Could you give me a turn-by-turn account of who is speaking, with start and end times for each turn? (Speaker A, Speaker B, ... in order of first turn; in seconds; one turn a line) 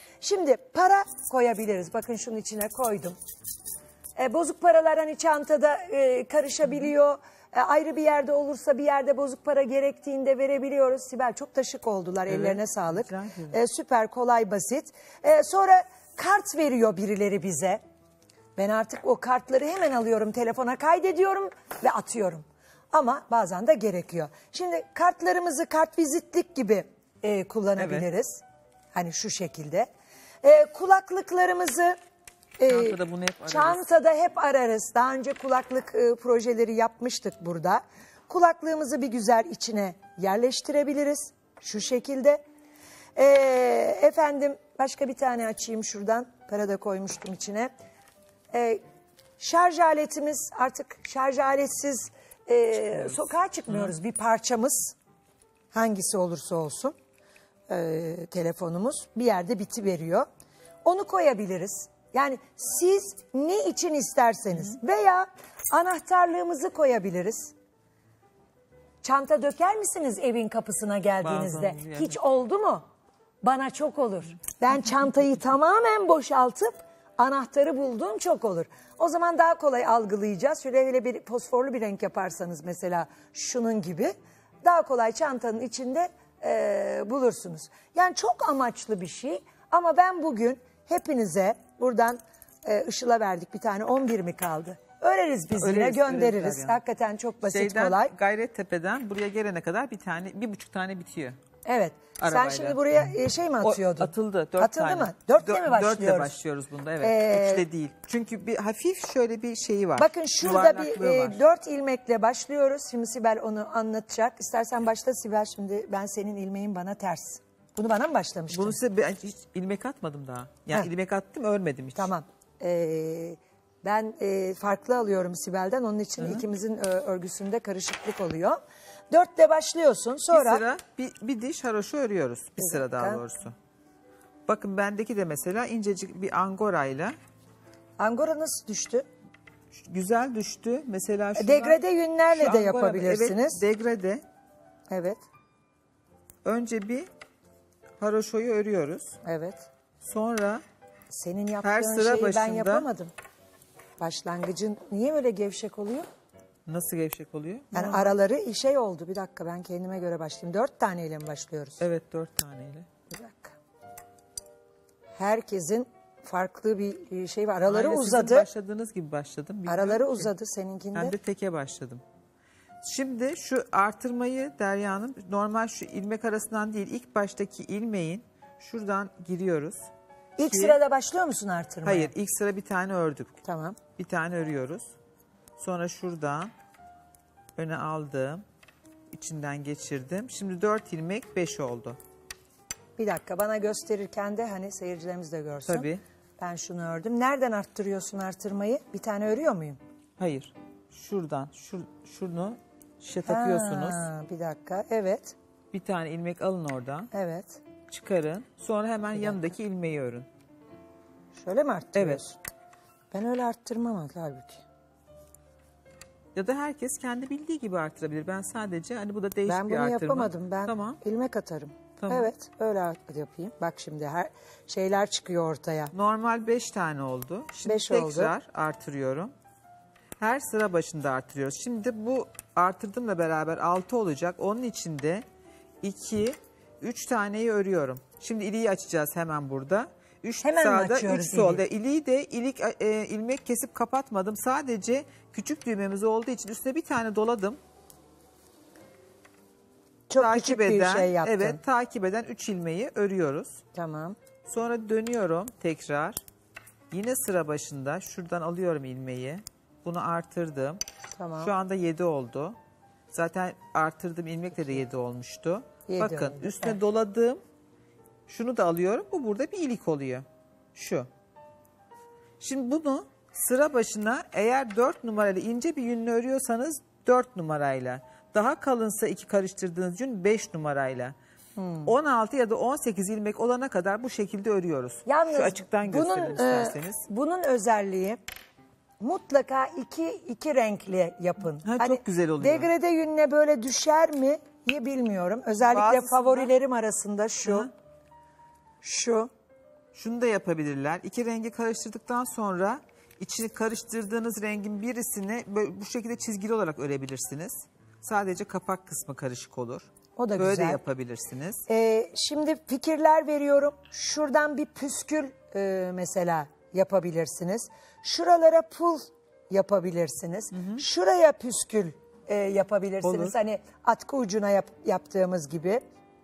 Speaker A: 0.2-3.2
Speaker A: 4.2-17.8
Speaker B: 12.3-13.6
Speaker A: 18.6-28.4
Speaker B: 27.8-28.1
Speaker A: 28.9-29.9
Speaker A: 30.4-31.9
Speaker A: 32.6-42.4
Speaker B: 32.7-33.8
Speaker A: 43.2-47.7
Speaker A: 48.5-48.8
Speaker A: 49.4-55.0
Speaker A: 55.7-57.0
Speaker A: 57.7-60.3
Speaker A: 60.8-67.5
Speaker A: 69.0-72.8
Speaker B: 71.2-72.2
Speaker A: 73.4-98.1
Speaker B: 95.5-96.8
Speaker B: 97.4-101.4
Speaker A: 101.6-106.3
Speaker B: 102.2-102.8
Speaker B: 103.6-111.4
Speaker A: 107.0-107.6
Speaker A: 110.0-118.8
Speaker B: 118.5-122.1
Speaker A: 122.0-128.6
Speaker B: 126.2-126.4
Speaker A: 129.1-130.6
Speaker B: 130.3-133.5
Speaker A: 132.6-133.2
Speaker B: 134.5-137.1
Speaker A: 138.0-139.1
Speaker B: 139.7-141.8
Speaker A: 141.4-143.6
Speaker B: 142.3-144.2
Speaker A: 144.9-145.2
Speaker B: 146.4-147.1
Speaker B: 148.0-149.2
Speaker A: 149.2-149.7
Speaker B: 150.0-150.6
Speaker A: 151.1-153.1
Speaker B: 151.6-152.9
Speaker A: 154.0-156.1
Speaker B: 156.7-158.1
Speaker A: 157.7-161.8
Speaker B: 161.8-162.9
Speaker A: 163.1-163.6
Speaker A: 165.2-168.5
Speaker B: 167.6-170.3
Speaker A: 169.7-171.1
Speaker B: 170.9-172.0
Speaker B: 172.8-179.9
Speaker A: 180.4-182.1
Speaker B: 180.4-180.8
Speaker B: 181.8-183.4
Speaker A: 183.4-183.8
Speaker B: 184.0-184.9
Speaker B: 185.6-186.5
Speaker B: 187.6-188.4
Speaker B: 189.1-192.0
Speaker A: 193.0-195.9
Speaker B: 195.7-196.0
Speaker A: 196.4-199.8
Speaker B: 200.2-204.1
Speaker A: 203.2-205.3
Speaker B: 205.7-207.1
Speaker A: 207.1-207.6
Speaker B: 207.9-210.3
Speaker A: 211.3-212.4
Speaker B: 211.9-212.2
Speaker A: 213.1-214.6
Speaker B: 216.3-221.0
Speaker A: 219.5-225.9
Speaker B: 222.0-222.3
Speaker B: 225.9-229.3
Speaker A: 227.7-228.3
Speaker B: 230.2-235.2
Speaker B: 235.8-247.6
Speaker A: 240.4-241.6
Speaker A: 250.1-251.6
Speaker B: 250.2-253.6
Speaker A: 253.7-254.2
Speaker B: 254.5-256.2
Speaker B: 256.9-260.8
Speaker A: 261.2-261.5
Speaker B: 261.4-262.6
Speaker B: 263.1-267.4
Speaker A: 265.9-266.8
Speaker B: 268.3-271.1
Speaker B: 272.4-281.1
Speaker A: 281.6-281.9
Speaker B: 281.9-287.1
Speaker A: 285.1-288.2
Speaker A: 289.0-297.7
Speaker B: 291.4-292.7
Speaker B: 295.5-296.5
Speaker B: 297.4-297.7
Speaker A: 298.8-299.3
Speaker B: 299.9-311.6
Speaker A: 310.2-310.8
Speaker A: 311.7-325.8
Speaker B: 320.5-320.8
Speaker B: 323.0-323.4